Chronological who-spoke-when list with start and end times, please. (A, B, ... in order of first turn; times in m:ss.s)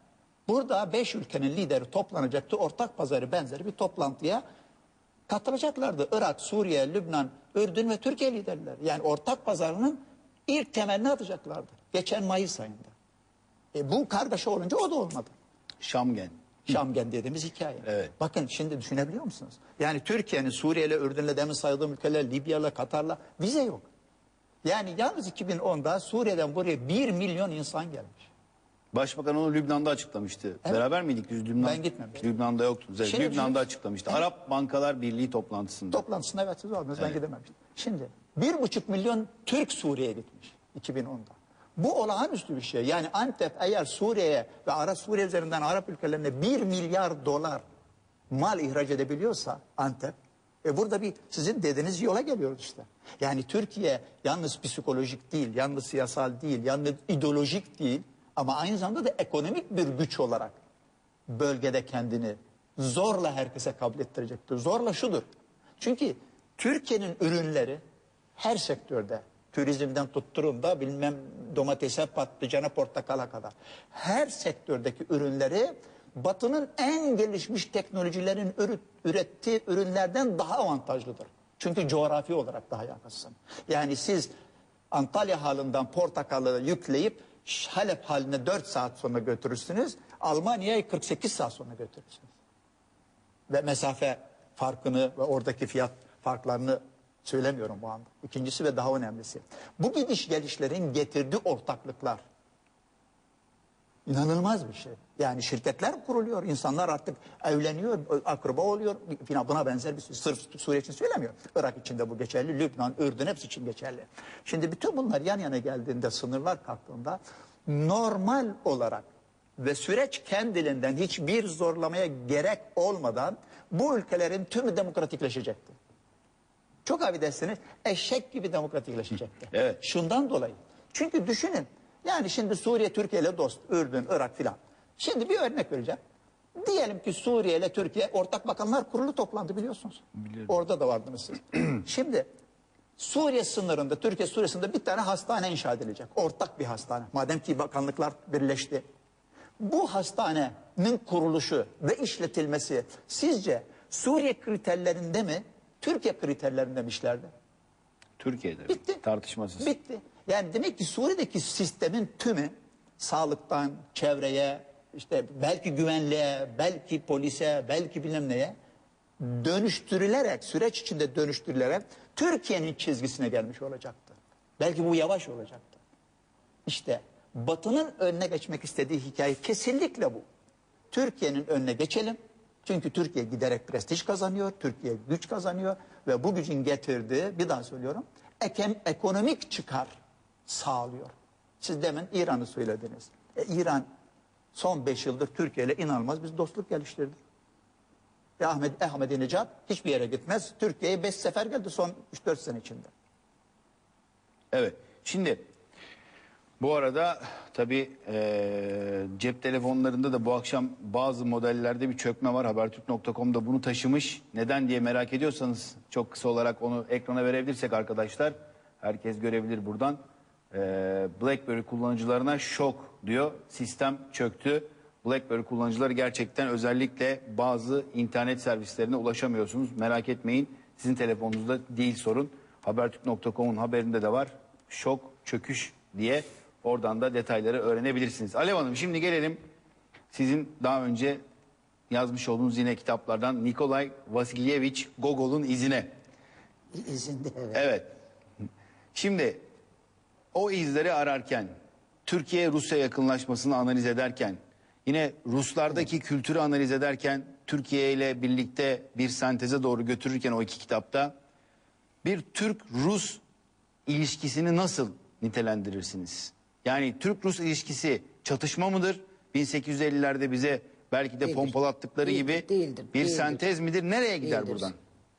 0:00.5-0:04.4 A
0:05.3-0:12.9 A
0:13.7-0:15.3 A
0:15.8-0:16.4 B
0:16.7-0:23.9 A
0:24.6-0:28.3 A
0:28.9-0:36.0 B
0:31.6-0:32.3 A
0:33.0-0:34.2 A
0:35.9-0:47.6 A
0:48.3-1:00.6 A
1:01.3-1:05.3 A
1:05.8-1:07.8 A
1:08.4-1:24.3 A
1:24.9-1:32.3 A
1:33.5-1:42.2 A
1:44.1-1:59.0 A
1:59.6-2:05.8 A
2:06.8-2:16.0 A
2:16.6-2:22.3 A
2:23.0-2:28.8 A
2:29.6-2:37.3 A
2:38.2-2:39.7 B
2:38.7-2:39.0 A
2:39.6-2:48.6 A
2:49.2-2:55.8 A
2:56.7-3:00.2 A
3:00.9-3:09.9 A
3:10.5-3:13.9 A
3:14.5-3:17.2 A
3:18.4-3:22.9 A
3:24.5-3:25.4 B
3:26.6-3:40.0 B
3:40.5-3:59.4 B
4:00.1-4:01.2 B
4:01.9-4:05.9 B
4:06.8-4:07.6 C
4:07.5-4:07.9 B
4:08.9-4:09.4 B
4:10.3-4:11.5 B
4:12.1-4:21.1 B
4:22.0-4:23.2 B
4:23.9-4:34.8 B
4:31.2-4:33.4 C
4:34.2-4:34.7 C